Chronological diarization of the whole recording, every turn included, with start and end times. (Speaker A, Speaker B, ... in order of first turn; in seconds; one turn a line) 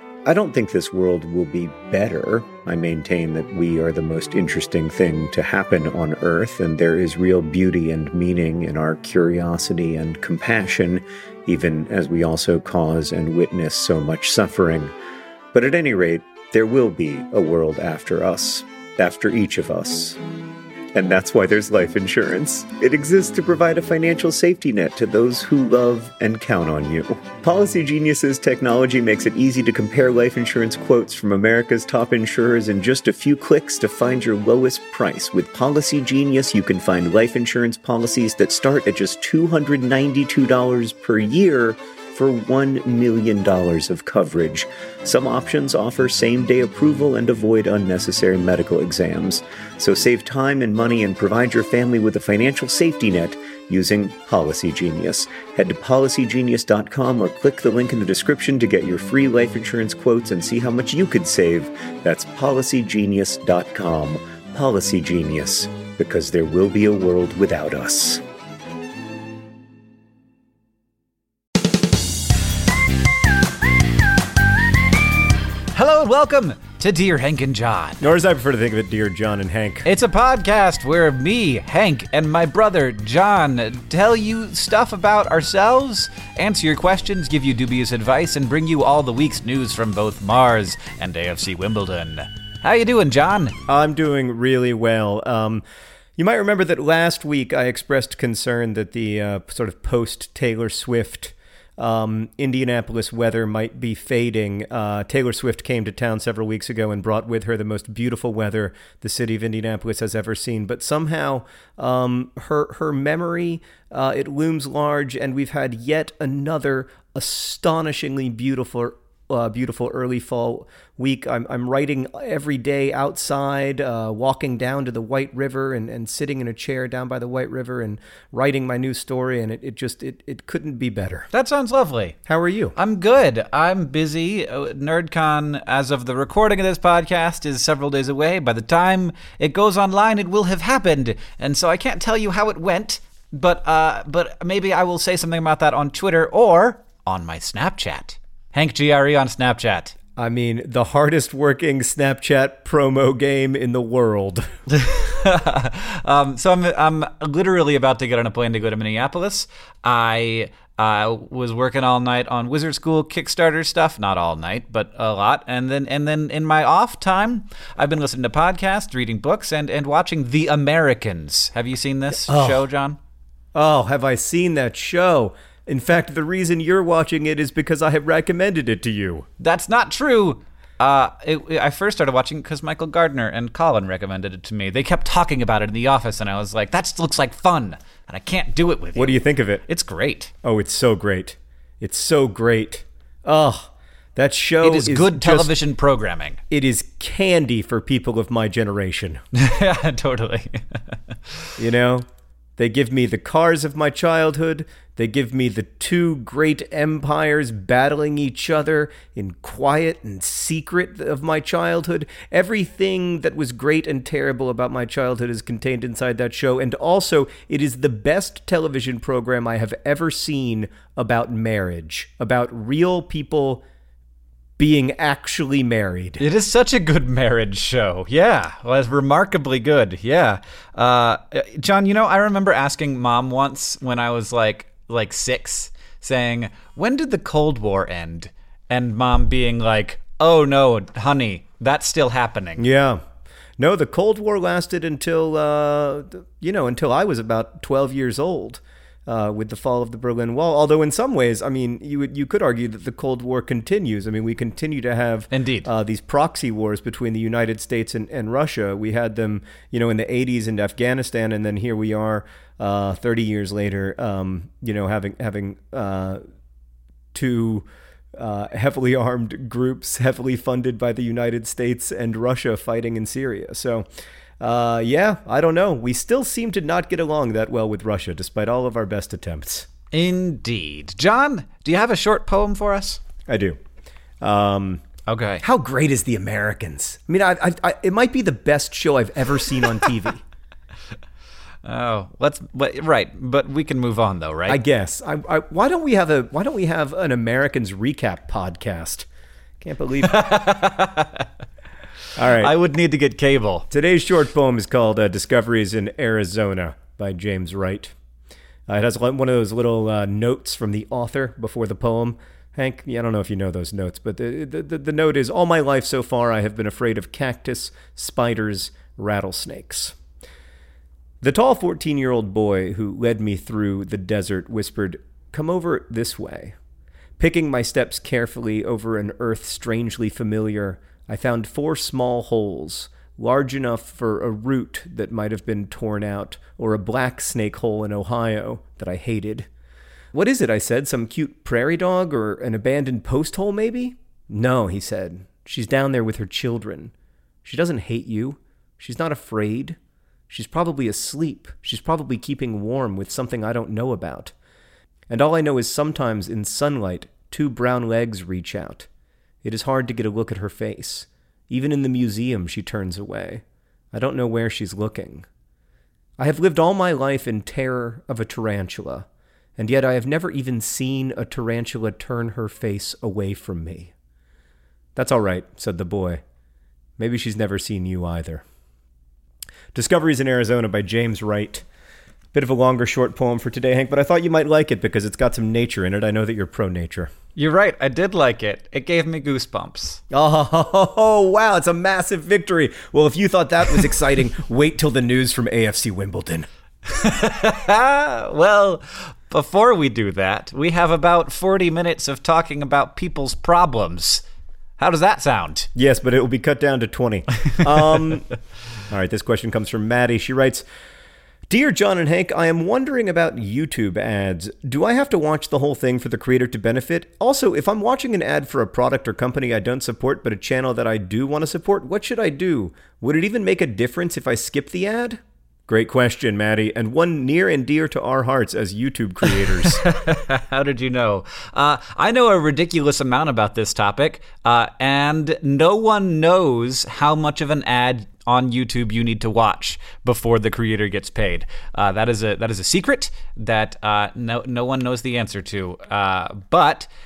Speaker A: 0.3-14.9
Speaker A: 15.5-20.2
Speaker A: 20.9-68.2
Speaker B: 75.7-78.0
Speaker C: 78.0-79.9
Speaker B: 79.8-93.6
Speaker C: 93.7-95.6
Speaker C: 96.2-131.3
Speaker B: 131.3-132.2
Speaker C: 132.3-132.8
Speaker B: 132.8-149.9
Speaker C: 150.2-154.5
Speaker B: 154.7-173.0
Speaker C: 172.2-172.7
Speaker C: 173.6-179.3
Speaker B: 179.4-190.3
Speaker C: 189.0-189.7
Speaker C: 190.4-195.5
Speaker B: 194.6-196.4
Speaker C: 196.5-199.2
Speaker B: 199.3-201.0
Speaker C: 201.6-202.1
Speaker C: 202.6-223.6
Speaker C: 224.6-226.2
Speaker B: 226.2-242.6
Speaker C: 242.6-243.0
Speaker C: 243.6-266.2
Speaker B: 255.3-255.7
Speaker C: 267.1-273.9
Speaker C: 274.4-279.7
Speaker B: 279.9-283.0
Speaker C: 283.3-283.6
Speaker C: 284.2-284.8
Speaker B: 285.1-285.4
Speaker C: 285.4-290.2
Speaker B: 291.6-294.6
Speaker C: 294.5-299.1
Speaker C: 299.6-300.6
Speaker B: 300.1-301.3
Speaker C: 302.2-302.6
Speaker B: 302.3-303.7
Speaker C: 303.7-307.9
Speaker C: 308.7-320.0
Speaker C: 321.2-326.6
Speaker C: 327.2-339.5
Speaker C: 340.1-346.9
Speaker C: 347.4-349.8
Speaker C: 350.3-354.3
Speaker C: 355.1-358.9
Speaker C: 359.4-365.3
Speaker C: 366.2-373.9
Speaker C: 375.0-376.2
Speaker C: 377.0-378.4
Speaker C: 379.7-381.6
Speaker C: 382.3-387.1
Speaker B: 387.4-390.0
Speaker C: 390.1-396.5
Speaker B: 396.9-404.2
Speaker B: 404.8-405.7
Speaker C: 405.8-408.3
Speaker C: 408.9-410.6
Speaker C: 411.5-429.8
Speaker B: 429.8-446.9